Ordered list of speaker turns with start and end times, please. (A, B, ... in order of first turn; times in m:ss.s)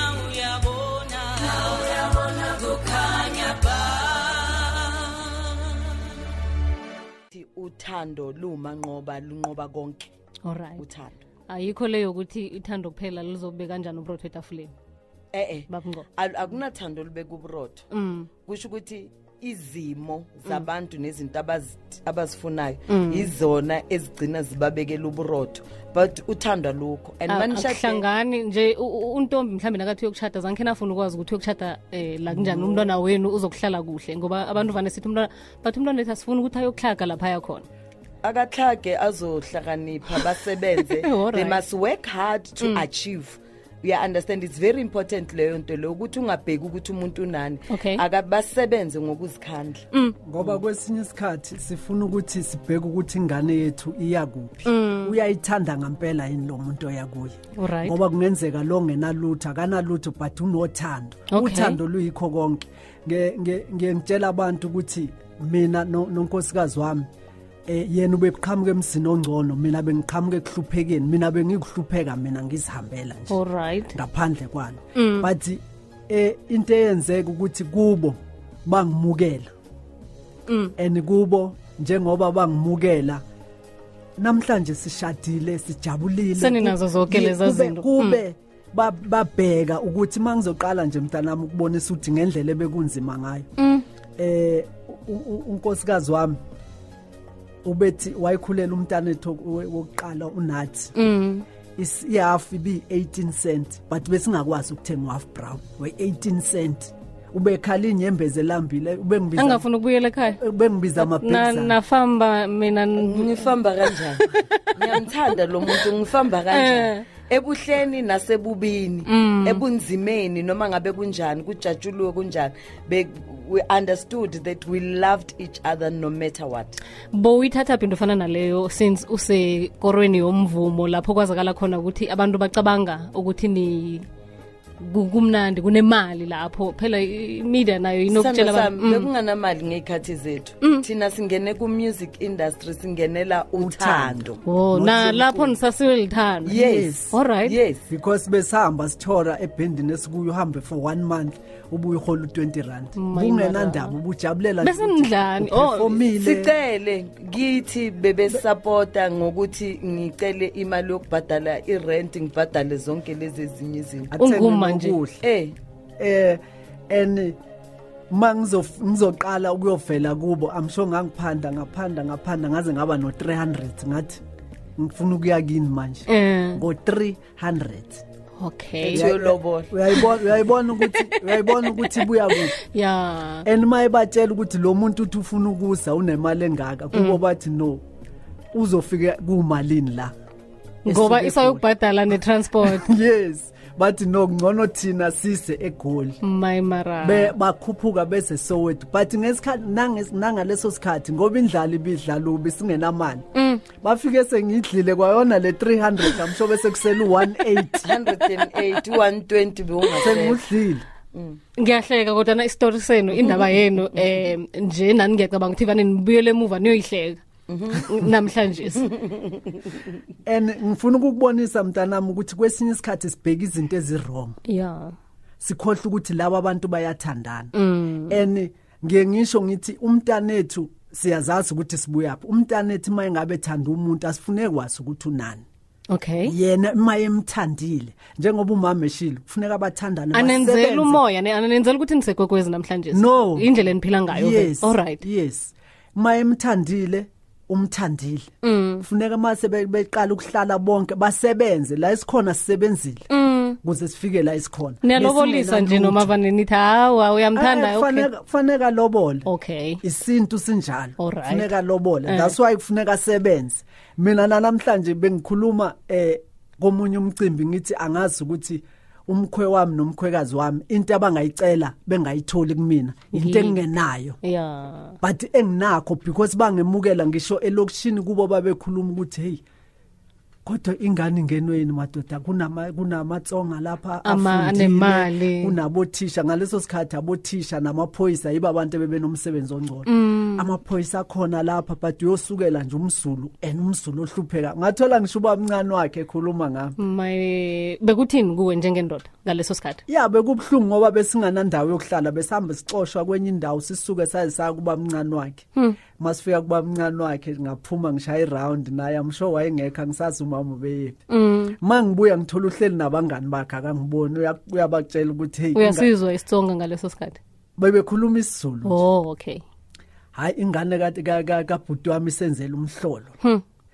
0:02.7-0:03.6 A
0:07.3-0:10.1 A
0:10.4-0:10.8 B
0:10.8-0:11.2 A
0:11.5-0:14.7 B
0:15.3-0:17.8 A
0:15.7-0:16.1 B
0:17.9-0:18.3 B
0:18.4-0:28.0 A
0:22.9-0:23.3 B
0:27.3-0:37.6 B
0:38.2-0:49.8 A
0:40.8-0:41.6 B
0:47.7-0:48.0 B
0:50.2-1:07.1 C
0:54.6-0:55.2 B
0:57.6-0:58.0 B
1:01.3-1:01.8 B
1:07.7-1:13.4 C
1:13.3-1:14.0 B
1:13.9-1:19.5 C
1:14.9-1:15.3 B
1:20.5-1:20.7 B
1:20.8-1:23.2 C
1:24.2-1:33.5 C
1:26.4-1:28.2 B
1:33.6-1:33.8 B
1:34.2-1:36.4 C
1:37.6-1:40.9 C
1:41.0-1:41.4 B
1:41.8-1:49.6 C
1:49.4-1:50.4 B
1:50.3-1:51.8 C
1:51.0-1:53.4 B
1:53.0-2:06.8 A
1:56.5-1:57.0 B
1:59.1-1:59.6 B
2:07.1-2:14.0 B
2:14.8-2:19.1 B
2:18.1-2:24.4 A
2:23.6-2:25.5 C
2:24.4-2:27.6 B
2:26.5-2:26.9 A
2:26.5-2:27.1 C
2:27.4-2:27.8 A
2:27.9-2:36.5 C
2:33.0-2:34.0 B
2:34.6-2:36.0 B
2:36.2-2:44.1 A
2:44.1-2:45.2 C
2:44.2-2:45.0 B
2:45.2-2:45.5 A
2:46.0-2:47.4 C
2:48.1-2:54.2 C
2:54.8-2:58.0 C
2:56.1-2:56.6 B
2:58.4-2:59.0 B
2:58.8-2:59.7 A
2:58.9-3:02.6 C
3:00.8-3:03.4 B
3:03.4-3:07.8 C
3:06.9-3:07.2 B
3:08.5-3:10.1 C
3:10.8-3:12.9 B
3:10.9-3:11.6 C
3:12.6-3:16.2 C
3:16.2-3:17.3 B
3:17.0-3:27.9 C
3:23.3-3:23.6 B
3:27.8-3:30.4 A
3:30.0-3:30.8 C
3:31.1-3:31.4 A
3:31.6-3:37.2 B
3:37.5-3:38.0 A
3:37.8-3:38.9 B
3:38.8-3:39.8 A
3:40.2-3:44.4 C
3:44.5-3:44.9 B
3:45.4-3:47.5 C
3:47.5-3:48.2 B
3:48.1-3:55.4 C
3:55.9-3:56.3 B
3:56.2-4:01.0 C
4:00.1-4:05.0 B
4:02.9-4:03.5 C
4:04.1-4:13.1 C
4:08.4-4:08.8 B
4:13.1-4:13.6 B
4:13.6-4:16.1 C
4:14.8-4:18.1 B
4:17.3-4:19.3 C
4:19.2-4:19.8 B
4:19.8-4:34.2 C
4:21.0-4:21.5 B
4:22.0-4:22.3 B
4:33.1-4:33.6 B
4:34.2-4:35.0 B
4:35.0-4:39.4 C
4:40.4-4:56.8 C
4:44.0-4:45.5 B
4:49.9-4:50.5 B
4:56.8-4:59.8 B
4:59.9-5:05.5 C
5:06.0-5:11.0 C
5:11.1-5:11.6 B
5:11.6-5:15.9 C
5:15.5-5:17.2 B
5:17.6-5:18.8 C
5:18.6-5:19.4 B
5:20.1-5:23.2 C